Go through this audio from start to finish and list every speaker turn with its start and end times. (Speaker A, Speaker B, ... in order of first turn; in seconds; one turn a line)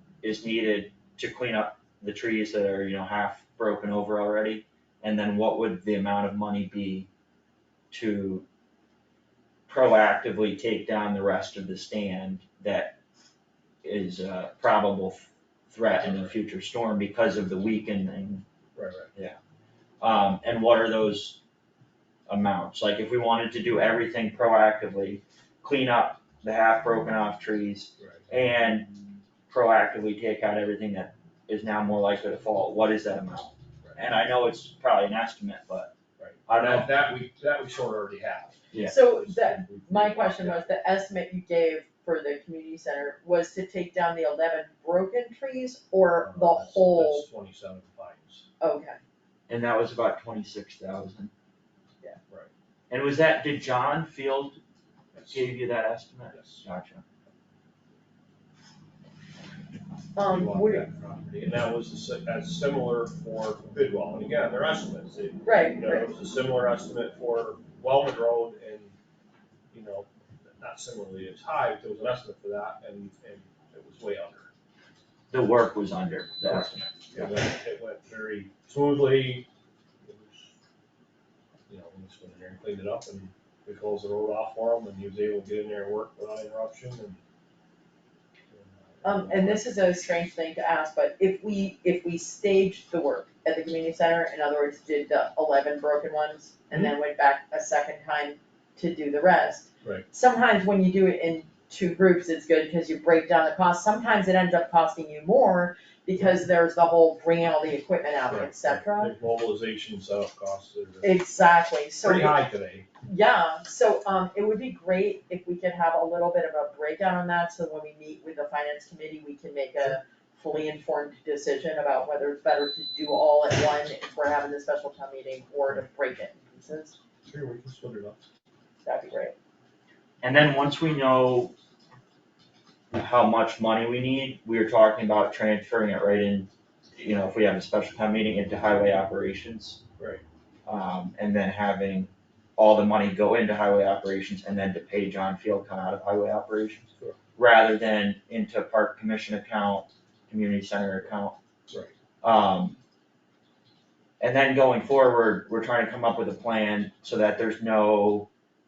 Speaker A: 0.2-7.1
Speaker A: 7.9-8.4
Speaker A: 9.7-12.9
Speaker A: 13.8-18.4
Speaker B: 16.0-16.3
Speaker B: 18.7-19.1
Speaker A: 20.0-21.4
Speaker A: 22.3-28.9
Speaker A: 29.5-35.9
Speaker B: 36.2-40.7
Speaker A: 36.5-36.9
Speaker A: 38.7-39.0
Speaker C: 38.8-47.2
Speaker B: 46.2-48.4
Speaker C: 48.6-49.0
Speaker A: 49.5-51.3
Speaker A: 52.9-54.6
Speaker B: 55.1-55.5
Speaker A: 55.3-57.0
Speaker B: 56.3-56.6
Speaker C: 60.1-60.9
Speaker B: 60.2-68.9
Speaker C: 65.4-66.1
Speaker B: 69.7-74.5
Speaker A: 75.3-77.3
Speaker B: 77.1-79.5
Speaker B: 80.0-80.5
Speaker B: 81.7-87.2
Speaker B: 88.5-89.6
Speaker C: 89.0-109.1
Speaker B: 108.3-111.1
Speaker C: 111.0-112.4
Speaker B: 112.0-112.9
Speaker C: 113.0-127.0
Speaker B: 127.2-128.2
Speaker C: 128.8-129.3
Speaker A: 130.2-131.5
Speaker A: 132.9-139.8
Speaker B: 140.0-140.2
Speaker A: 140.7-151.3
Speaker A: 152.2-152.8
Speaker A: 154.2-158.3